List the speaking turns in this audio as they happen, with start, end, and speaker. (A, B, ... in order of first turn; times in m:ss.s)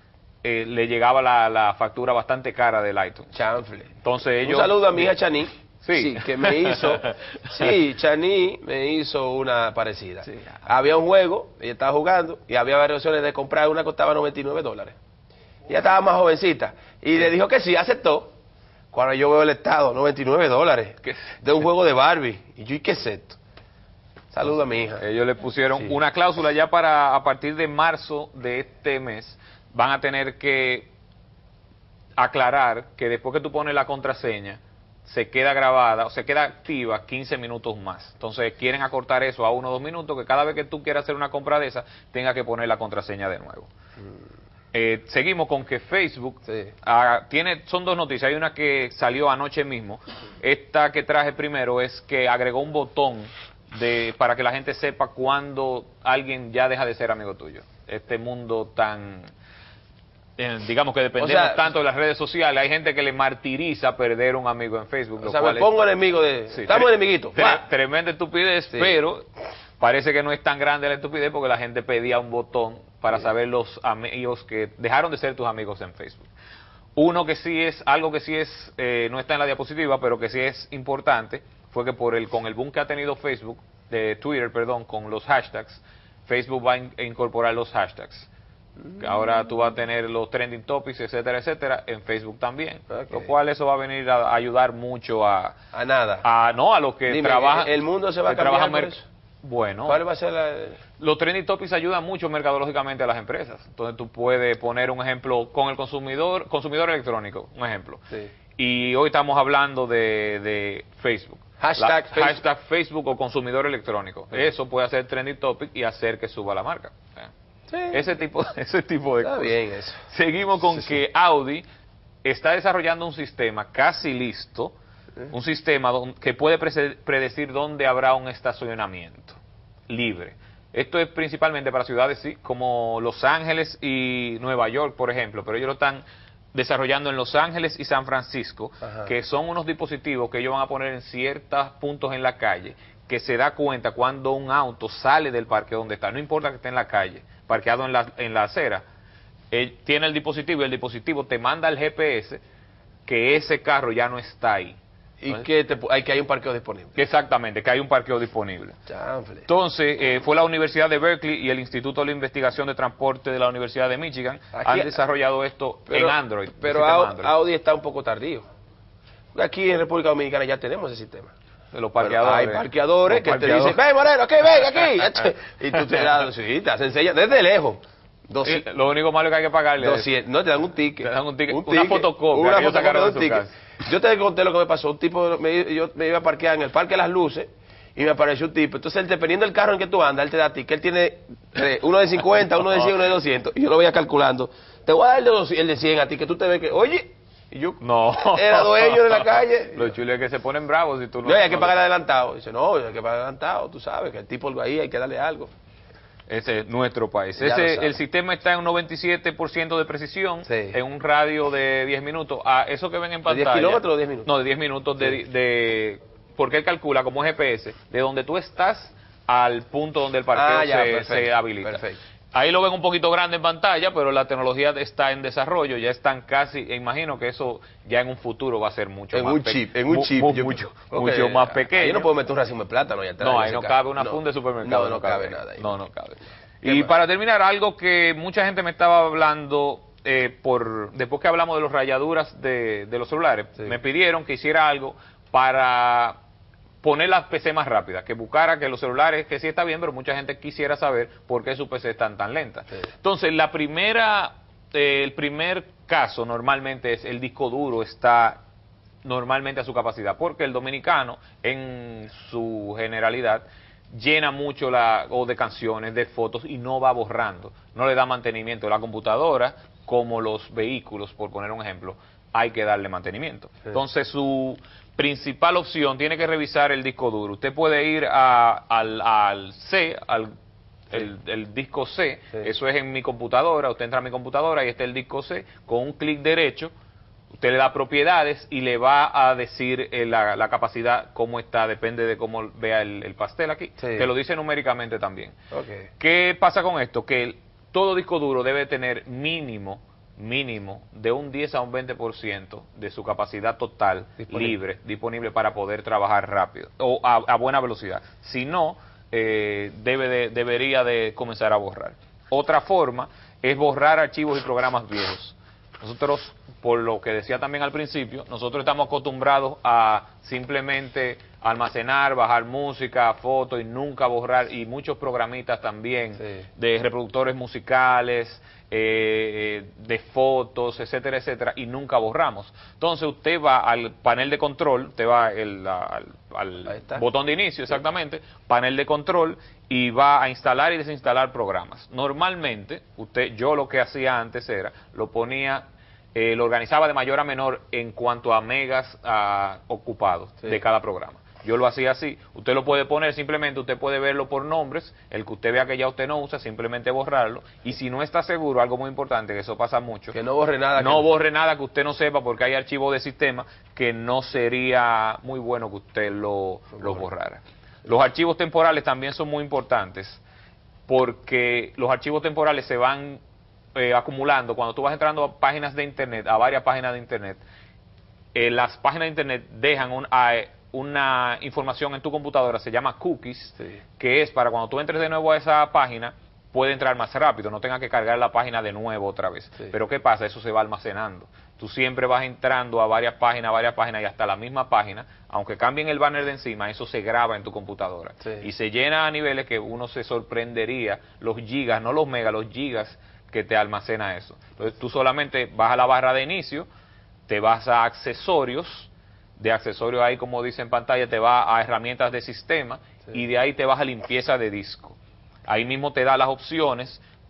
0:00.4-0:03.3 A
0:03.3-0:03.9 B
0:04.0-0:05.1 A
0:04.4-0:15.0 B
0:05.8-0:07.7 A
0:15.7-0:18.3 B
0:18.9-0:23.4 B
0:21.0-0:21.4 A
0:24.3-0:25.0 B
0:25.0-0:30.9 A
0:32.2-0:43.7 A
0:44.7-0:59.3 A
1:00.4-1:05.7 A
1:01.2-1:01.6 B
1:05.2-1:07.6 B
1:06.5-1:09.2 A
1:09.8-1:16.3 A
1:17.0-1:28.3 A
1:28.9-1:35.6 A
1:32.9-1:33.3 B
1:35.7-1:36.2 B
1:36.2-1:40.0 A
1:37.1-1:39.0 B
1:39.8-1:40.8 B
1:41.0-1:48.0 A
1:48.6-1:57.3 A
1:51.6-1:52.4 B
1:57.7-1:58.0 B
1:57.9-1:59.5 A
1:59.2-2:00.0 B
2:00.1-2:01.6 A
2:02.2-2:04.7 A
2:05.3-2:09.4 A
2:09.9-2:16.0 A
2:16.5-2:28.8 A
2:29.5-2:32.4 A
2:33.0-2:34.8 A
2:35.2-2:37.0 B
2:37.0-2:38.8 A
2:38.9-2:39.5 B
2:39.4-2:47.3 A
2:44.5-2:45.0 B
2:45.9-2:48.4 B
2:49.3-2:51.3 B
2:51.7-2:53.8 A
2:52.0-2:58.6 B
2:58.4-3:00.1 A
2:59.8-3:19.9 B
3:01.0-3:03.5 A
3:17.8-3:21.7 A
3:21.2-3:25.5 B
3:26.3-3:52.1 A
3:27.4-3:28.0 B
3:30.4-3:30.8 B
3:33.3-3:34.3 B
3:40.3-3:42.0 B
3:49.1-3:55.7 B
3:53.2-4:06.2 A
3:56.6-3:56.9 B
4:06.8-4:18.4 A
4:19.0-4:40.3 A
4:40.9-4:46.7 A
4:47.3-4:55.3 A
4:53.8-4:54.1 B
4:55.5-4:55.9 B
4:56.0-5:45.6 A
5:36.7-5:37.0 B
5:46.1-6:00.2 A
6:00.1-6:01.1 B
6:00.8-6:10.2 A
6:10.9-6:13.2 A
6:13.7-6:17.4 A
6:18.3-6:46.7 A
6:47.3-6:57.0 A